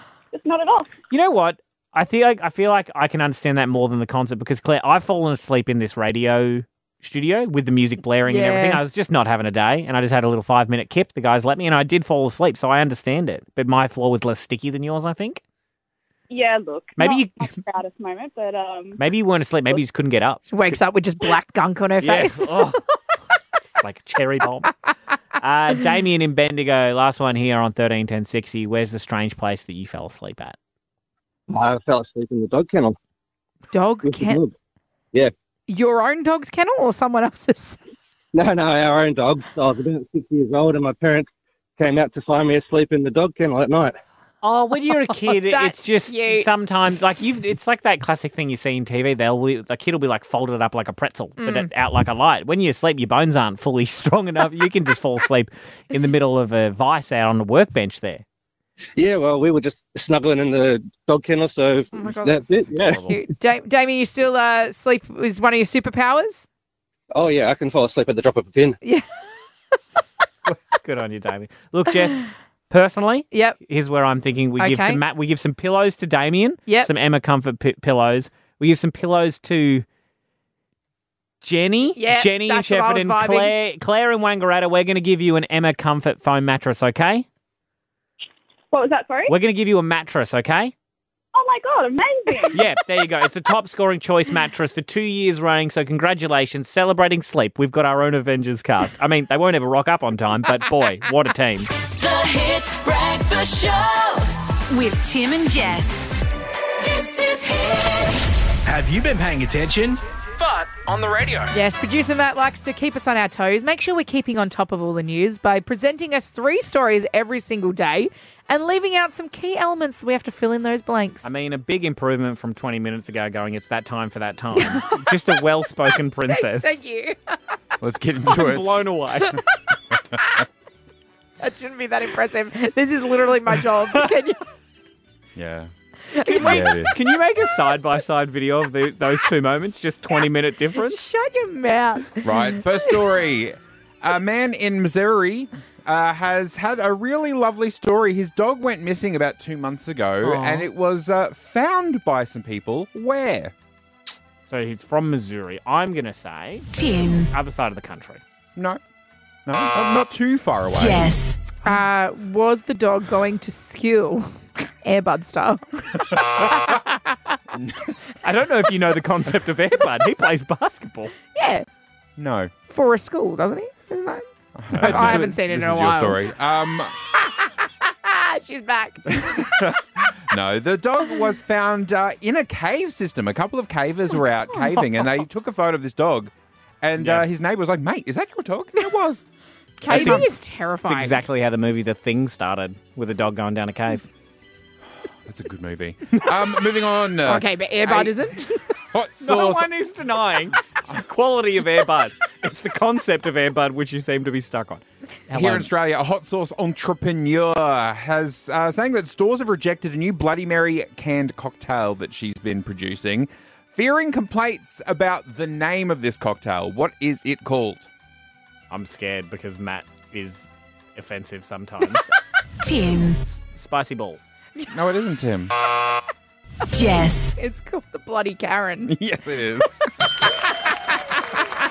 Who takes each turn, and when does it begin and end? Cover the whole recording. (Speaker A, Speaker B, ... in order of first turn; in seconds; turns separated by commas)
Speaker A: 0.3-0.9, Speaker B: 1.1-15.4, Speaker C: 8.2-8.8, Speaker A: 16.3-19.0, Speaker B: 17.0-17.5, Speaker B: 19.0-20.5, Speaker C: 20.5-22.7, Speaker B: 22.0-22.8, Speaker B: 23.8-24.7, Speaker B: 25.4-30.6, Speaker D: 31.5-33.0, Speaker C: 33.7-34.4, Speaker D: 34.0-34.5, Speaker C: 35.7-37.8, Speaker D: 38.3-44.0, Speaker B: 44.4-58.2, Speaker C: 45.3-46.5, Speaker C: 51.4-51.7, Speaker D: 59.0-63.0, Speaker C: 61.9-66.5, Speaker B: 62.5-63.2, Speaker D: 67.1-68.8, Speaker B: 70.5-79.8, Speaker C: 73.3-73.6, Speaker C: 74.6-75.0, Speaker B: 81.4-87.3, Speaker C: 82.0-83.5, Speaker A: 88.7-89.3, Speaker B: 89.3-90.7, Speaker A: 91.3-92.6, Speaker B: 92.5-101.7, Speaker E: 101.9-106.1, Speaker E: 106.9-108.2, Speaker F: 108.7-111.5, Speaker C: 111.5-121.3, Speaker B: 121.2-126.8, Speaker C: 124.5-125.1, Speaker C: 126.3-127.4, Speaker G: 127.8-128.9, Speaker B: 128.3-129.4, Speaker C: 131.4-134.4, Speaker G: 135.3-135.7, Speaker C: 136.1-137.0, Speaker B: 136.3-141.0, Speaker G: 136.3-137.0, Speaker C: 140.8-142.6, Speaker G: 142.2-153.5, Speaker B: 150.2-150.7, Speaker B: 154.5-156.7, Speaker E: 156.7-157.3, Speaker B: 157.3-158.2, Speaker G: 159.5-161.2, Speaker E: 160.7-161.4, Speaker C: 161.6-167.4, Speaker G: 166.3-166.7, Speaker G: 167.5-167.9, Speaker B: 168.2-171.1, Speaker C: 171.3-171.7, Speaker G: 172.2-172.5, Speaker C: 172.7-174.2, Speaker G: 174.6-177.0, Speaker B: 174.8-175.4, Speaker C: 174.8-176.2, Speaker C: 177.2-179.6, Speaker G: 179.2-189.2, Speaker C: 184.5-184.8, Speaker B: 187.0-187.3, Speaker C: 189.8-191.2, Speaker G: 189.9-190.4, Speaker B: 189.9-190.3, Speaker B: 190.9-194.1, Speaker G: 195.0-199.7, Speaker C: 197.2-198.6, Speaker B: 199.2-205.7, Speaker G: 205.3-217.9, Speaker B: 218.7-222.2, Speaker E: 222.6-223.2, Speaker B: 223.6-224.3, Speaker G: 224.7-225.5, Speaker E: 226.7-227.4, Speaker C: 227.4-228.9, Speaker G: 228.9-229.8